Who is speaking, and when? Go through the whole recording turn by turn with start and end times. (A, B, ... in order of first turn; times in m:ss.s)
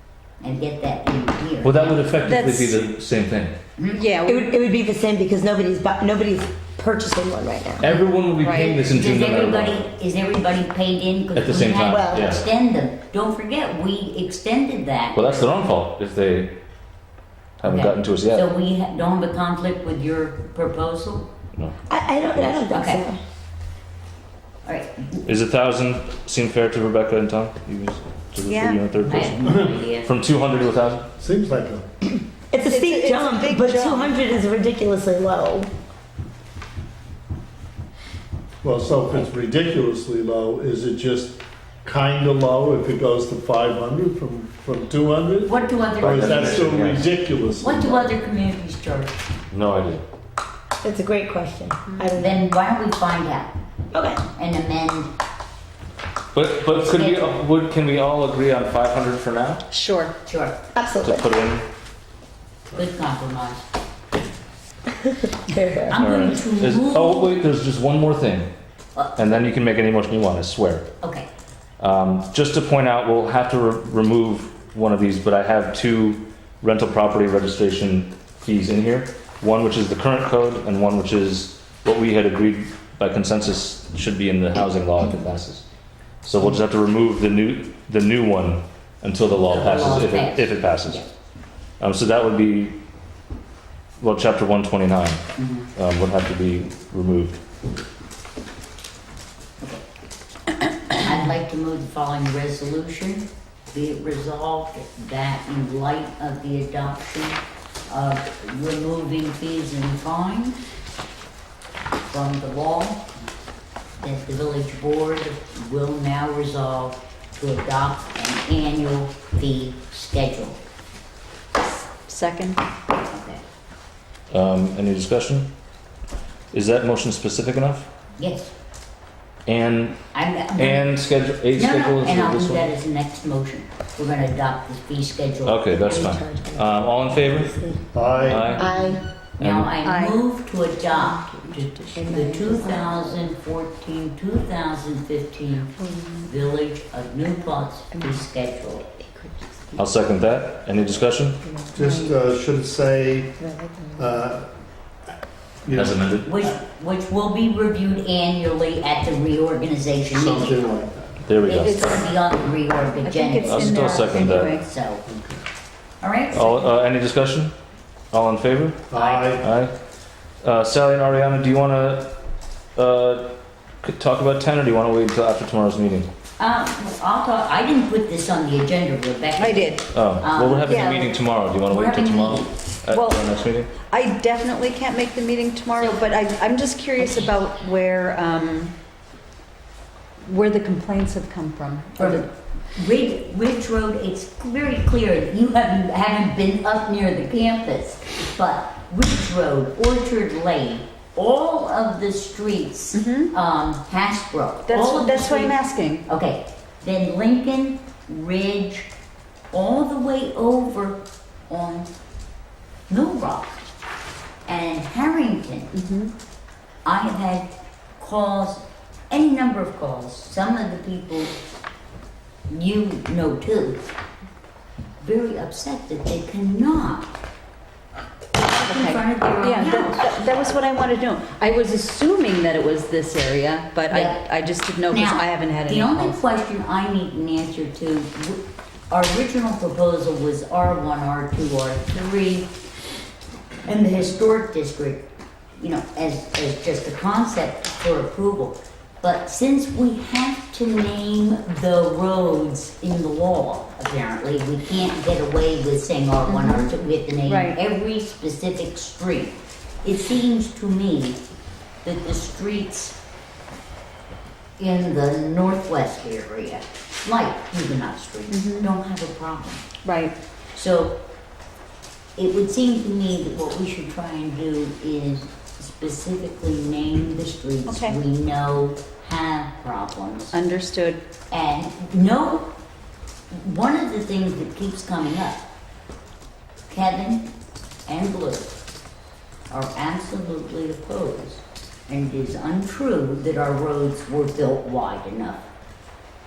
0:00.4-0:02.1 A
0:01.6-0:03.6 B
0:02.2-0:02.8 C
0:03.8-0:04.1 A
0:03.9-0:04.5 C
0:04.2-0:07.9 D
0:07.8-0:09.8 B
0:08.4-0:08.8 C
0:08.5-0:15.7 A
0:11.4-0:12.4 B
0:11.9-0:12.3 D
0:15.1-0:16.6 B
0:17.6-0:18.5 B
0:17.6-0:21.3 A
0:21.9-0:23.2 D
0:22.7-0:23.0 A
0:24.6-0:25.3 A
0:25.2-0:31.1 B
0:28.4-0:28.8 C
0:29.0-0:30.1 A
0:31.2-0:31.9 E
0:32.5-0:35.7 D
0:32.6-0:34.2 C
0:38.6-0:48.2 E
0:45.4-0:46.9 A
0:46.0-0:47.1 B
0:47.6-0:49.2 A
0:49.5-0:50.0 B
0:50.8-0:52.4 D
0:52.2-0:53.5 A
0:53.9-0:54.2 D
0:54.4-0:55.1 A
0:56.3-0:59.6 B
0:56.8-0:57.4 A
0:59.7-1:00.1 C
1:00.3-1:00.6 A
1:00.7-1:01.3 D
1:01.0-1:01.7 B
1:02.7-1:03.6 A
1:05.0-1:06.0 D
1:05.9-1:07.3 A
1:06.0-1:08.5 B
1:09.0-1:09.4 A
1:09.2-1:10.9 B
1:11.0-1:11.3 A
1:11.8-1:25.6 B
1:26.2-1:31.1 B
1:29.5-1:31.0 A
1:31.8-1:32.8 B
1:34.0-1:35.2 B
1:35.4-1:35.7 A
1:35.8-1:37.4 B
1:40.9-1:50.6 A
1:52.1-1:53.1 A
1:54.0-2:00.6 A
2:02.1-2:02.6 C
2:03.1-2:03.4 A
2:04.3-2:05.5 B
2:06.5-2:07.9 B
2:08.2-2:08.5 A
2:09.5-2:12.7 B
2:10.1-2:10.9 A
2:11.5-2:16.1 A
2:15.4-2:17.7 B
2:15.7-2:17.9 D
2:17.9-2:18.6 E
2:18.2-2:18.7 B
2:18.3-2:19.0 C
2:18.5-2:19.0 D
2:19.4-2:19.7 B
2:19.4-2:28.9 A
2:19.8-2:20.2 C
2:22.0-2:23.2 D
2:22.0-2:22.3 C
2:25.8-2:26.3 D
2:27.9-2:28.2 D
2:29.0-2:29.8 D
2:29.8-2:31.4 B
2:31.4-2:32.1 D
2:31.7-2:33.4 E
2:33.4-2:34.1 D
2:34.0-2:34.5 E
2:35.6-2:36.6 E
2:35.7-2:36.3 B
2:36.2-2:40.7 A
2:40.1-2:41.2 E
2:41.3-2:42.1 B
2:41.4-2:45.0 A
2:41.5-2:42.0 C
2:43.0-2:44.6 C
2:43.4-2:44.6 B
2:45.1-2:45.4 E
2:46.0-2:46.7 A
2:46.3-2:47.5 B
2:48.1-2:49.7 B
2:48.9-2:49.5 E
2:48.9-2:49.3 A
2:50.4-2:52.2 B
2:52.8-2:56.1 B
2:56.4-3:01.1 A
2:59.4-2:59.8 C
2:59.9-3:03.7 B
3:00.7-3:01.1 C
3:01.7-3:02.6 A
3:02.9-3:08.7 C
3:10.2-3:12.3 C
3:12.0-3:28.9 A
3:22.9-3:23.3 C
3:24.7-3:26.0 C
3:29.5-3:31.9 A
3:32.9-3:33.7 A
3:34.5-3:35.7 A
3:35.7-3:36.1 C
3:36.8-3:41.3 A
3:42.5-3:43.8 A
3:45.0-3:47.1 A
3:48.4-3:50.1 A
3:48.7-3:56.2 C
3:53.9-3:54.2 A
3:54.9-4:02.6 A
4:03.6-4:21.2 A
4:16.3-4:16.7 C
4:17.3-4:17.6 C
4:21.8-4:23.0 A
4:24.6-4:29.7 A
4:28.3-4:28.8 C
4:29.8-4:30.2 C
4:30.5-4:31.0 A
4:32.2-4:40.4 A
4:37.7-4:38.0 C
4:40.3-4:41.0 C
4:41.3-4:42.5 A
4:43.3-4:45.5 A
4:46.7-4:47.3 A
4:47.9-4:48.6 A
4:49.5-4:55.5 A